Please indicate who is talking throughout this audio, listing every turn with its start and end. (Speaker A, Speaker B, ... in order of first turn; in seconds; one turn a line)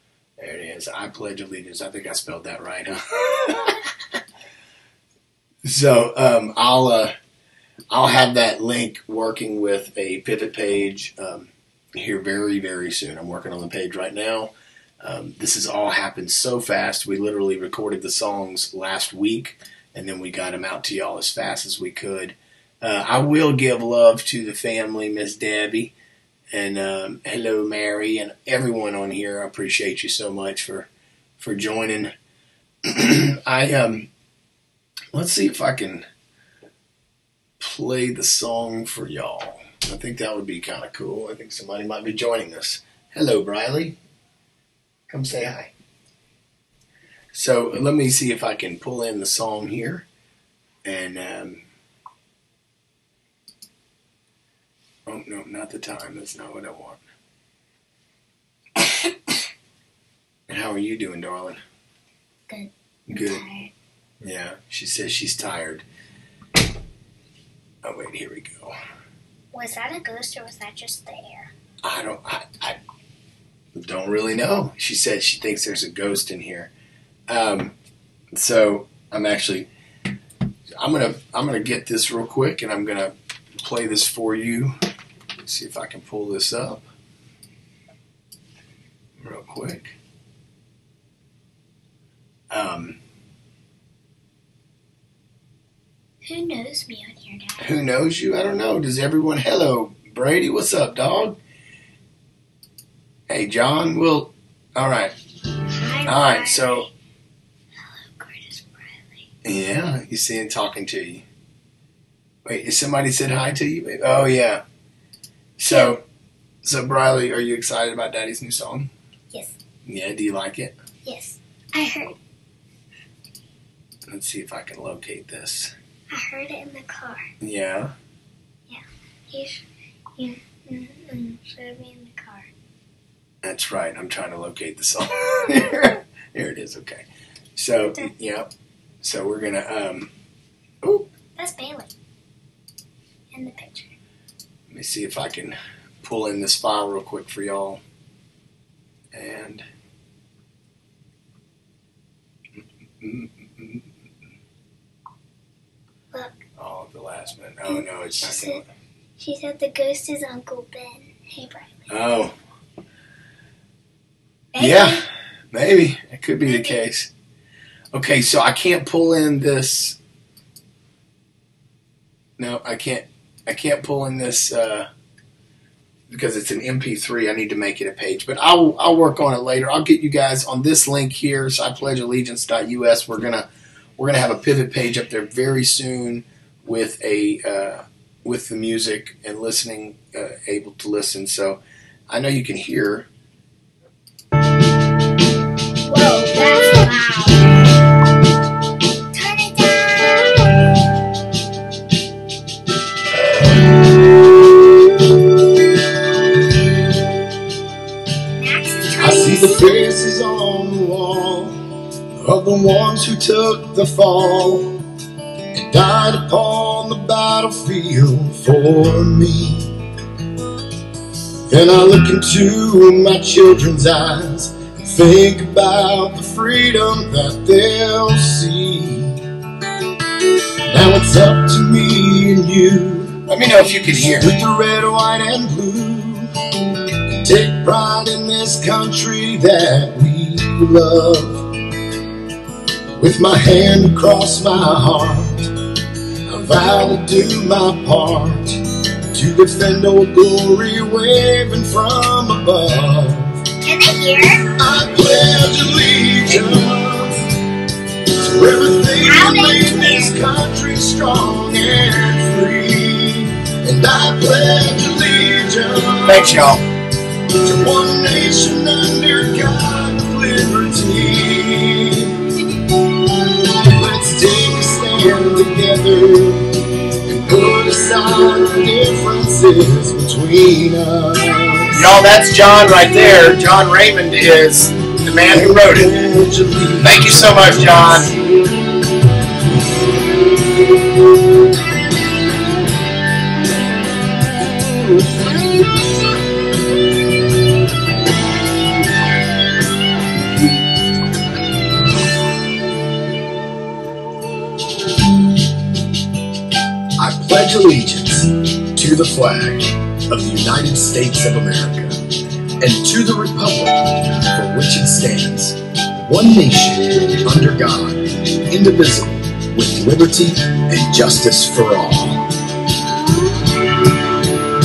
Speaker A: 0.4-3.8
Speaker A: 5.6-7.1
Speaker A: 7.9-14.5
Speaker A: 15.0-25.9
Speaker A: 26.5-32.1
Speaker A: 32.8-34.1
Speaker A: 35.1-36.0
Speaker A: 37.6-44.0
Speaker A: 45.1-45.7
Speaker A: 47.3-50.0
Speaker A: 50.8-51.6
Speaker A: 55.1-57.0
Speaker A: 60.5-61.6
Speaker B: 62.5-63.7
Speaker A: 63.1-63.4
Speaker A: 64.2-65.8
Speaker A: 67.8-68.7
Speaker B: 69.5-71.5
Speaker A: 71.8-72.8
Speaker A: 73.7-76.7
Speaker A: 77.3-77.7
Speaker A: 78.3-79.7
Speaker A: 80.8-84.7
Speaker A: 85.4-86.8
Speaker A: 89.2-90.0
Speaker A: 92.5-93.0
Speaker B: 96.2-97.7
Speaker A: 97.6-101.4
Speaker A: 103.3-105.1
Speaker B: 105.8-106.9
Speaker A: 106.0-106.9
Speaker B: 107.8-109.3
Speaker A: 109.4-111.2
Speaker A: 112.4-114.6
Speaker A: 115.6-116.0
Speaker B: 115.7-116.0
Speaker A: 116.6-118.9
Speaker A: 119.8-120.7
Speaker B: 121.0-122.2
Speaker A: 124.1-125.7
Speaker B: 126.1-127.3
Speaker A: 127.4-127.9
Speaker B: 128.7-129.6
Speaker B: 130.2-132.5
Speaker A: 133.4-137.0
Speaker A: 137.6-138.5
Speaker A: 139.0-140.1
Speaker B: 140.8-141.9
Speaker B: 143.3-143.9
Speaker A: 144.7-147.8
Speaker A: 149.1-149.6
Speaker A: 153.0-153.9
Speaker B: 156.1-156.4
Speaker A: 156.6-158.7
Speaker B: 157.7-158.6
Speaker B: 159.2-161.8
Speaker A: 161.9-162.3
Speaker B: 164.5-165.0
Speaker A: 164.6-167.1
Speaker B: 166.4-166.8
Speaker A: 167.9-170.0
Speaker A: 172.4-174.9
Speaker A: 176.1-183.5
Speaker A: 184.0-193.1
Speaker B: 195.8-197.6
Speaker B: 199.1-200.5
Speaker B: 208.4-209.7
Speaker C: 208.9-211.6
Speaker C: 212.2-214.7
Speaker C: 215.5-219.7
Speaker C: 221.5-229.2
Speaker C: 230.7-233.2
Speaker A: 233.3-234.3
Speaker C: 233.9-236.3
Speaker C: 237.2-241.4
Speaker C: 243.0-245.5
Speaker C: 246.3-248.6
Speaker C: 249.1-253.4
Speaker B: 253.6-254.4
Speaker C: 254.5-257.2
Speaker C: 258.1-266.6
Speaker B: 259.0-260.1
Speaker A: 266.0-266.6
Speaker C: 267.4-276.4
Speaker C: 277.1-281.9
Speaker A: 281.7-285.9
Speaker C: 285.3-288.5
Speaker A: 286.8-288.1
Speaker C: 307.0-311.9
Speaker C: 312.6-313.8
Speaker C: 314.3-318.0
Speaker C: 318.5-322.2